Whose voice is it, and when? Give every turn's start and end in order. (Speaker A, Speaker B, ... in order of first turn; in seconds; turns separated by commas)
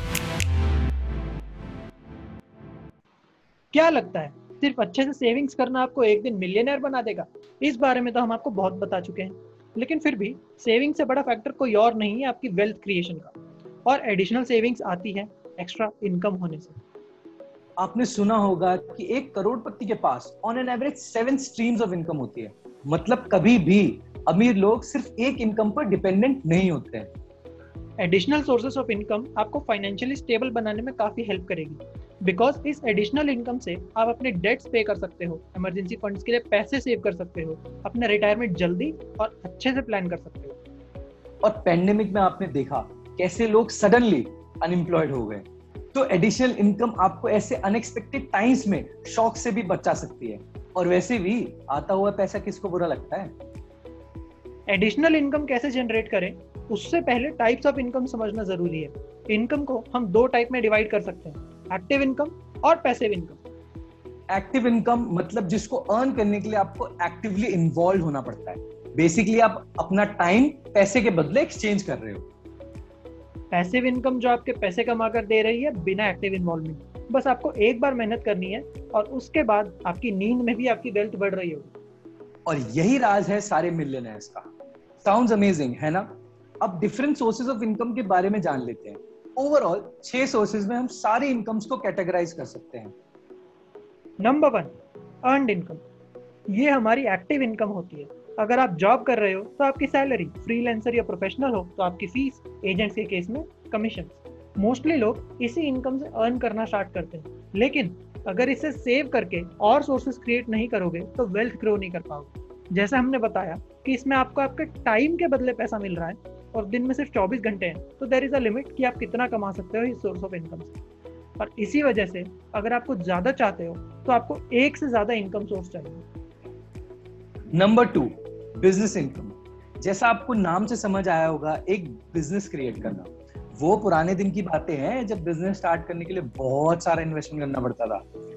Speaker A: 3.7-13.3, Speaker A: 13.8-16.8, Speaker B: 17.8-27.1, Speaker A: 28.0-40.6, Speaker B: 41.4-53.3, Speaker A: 54.7-63.4, Speaker B: 64.3-72.2, Speaker A: 73.5-81.7, Speaker B: 82.5-84.5, Speaker B: 85.0-92.9, Speaker A: 94.2-94.7, Speaker A: 95.2-95.8, Speaker A: 96.5-120.7, Speaker A: 121.4-126.0, Speaker B: 127.5-138.0